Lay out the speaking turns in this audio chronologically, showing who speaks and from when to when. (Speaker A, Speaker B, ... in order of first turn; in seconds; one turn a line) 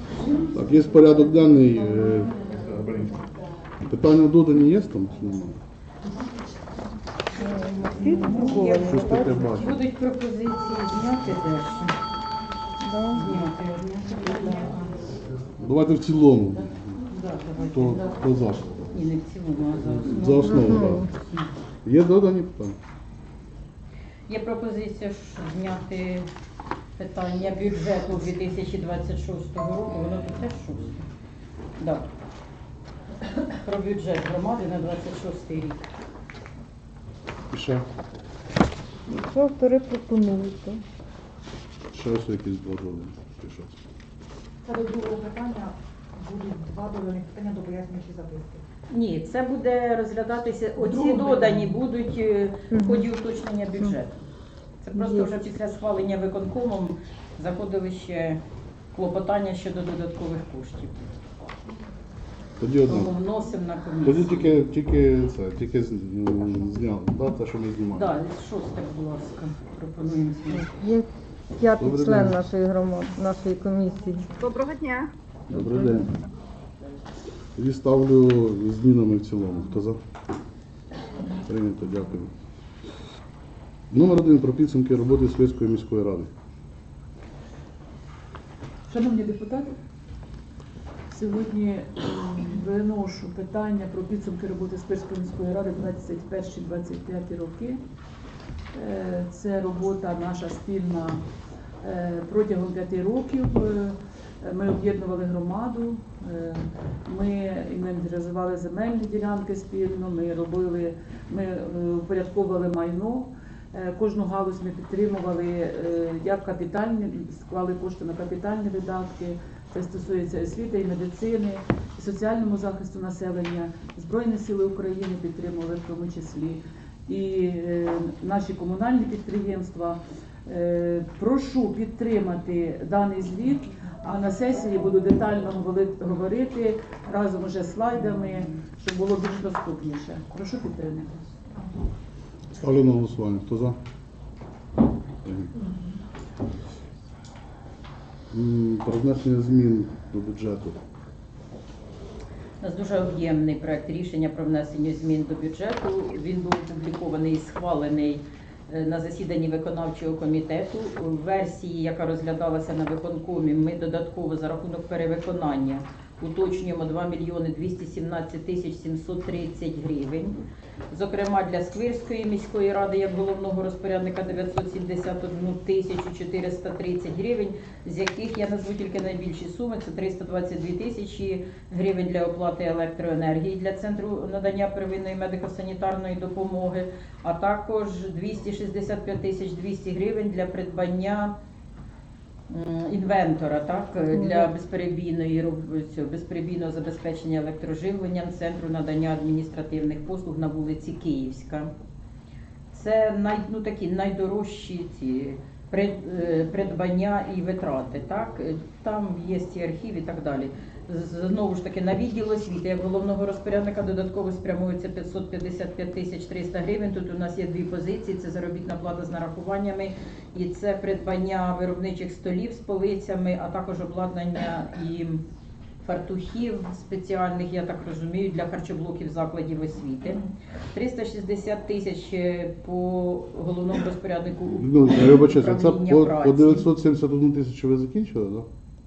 Speaker A: 0.5-2.5
Speaker A: 3.9-5.5
Speaker B: 7.4-9.6
Speaker C: 8.5-8.8
Speaker A: 8.8-9.8
Speaker C: 9.5-11.9
Speaker B: 12.8-13.3
Speaker C: 13.1-14.8
Speaker A: 15.6-16.9
Speaker C: 17.1-18.2
Speaker A: 17.7-18.9
Speaker C: 18.9-21.6
Speaker A: 20.0-21.1
Speaker B: 20.4-21.1
Speaker A: 21.9-22.8
Speaker C: 24.3-26.3
Speaker C: 27.0-31.1
Speaker C: 31.8-32.0
Speaker C: 33.6-35.8
Speaker A: 37.5-37.8
Speaker B: 39.1-40.8
Speaker A: 41.9-43.8
Speaker D: 44.6-48.6
Speaker C: 48.9-54.2
Speaker B: 52.7-53.0
Speaker C: 54.8-58.4
Speaker B: 55.0-55.3
Speaker C: 58.9-61.0
Speaker A: 62.6-63.1
Speaker C: 62.9-64.6
Speaker A: 64.0-68.1
Speaker C: 67.9-70.7
Speaker B: 70.6-71.1
Speaker B: 71.6-74.5
Speaker A: 71.8-72.4
Speaker A: 75.5-76.1
Speaker A: 77.6-80.0
Speaker A: 81.4-82.3
Speaker A: 83.9-86.3
Speaker E: 88.9-89.8
Speaker E: 91.1-97.8
Speaker E: 98.7-101.2
Speaker E: 101.8-141.3
Speaker A: 142.5-143.8
Speaker A: 145.2-145.5
Speaker A: 148.3-150.8
Speaker C: 152.6-170.4
Speaker C: 170.9-191.3
Speaker C: 192.5-201.7
Speaker B: 194.1-194.5
Speaker C: 202.7-225.2
Speaker C: 225.8-236.7
Speaker A: 234.6-238.5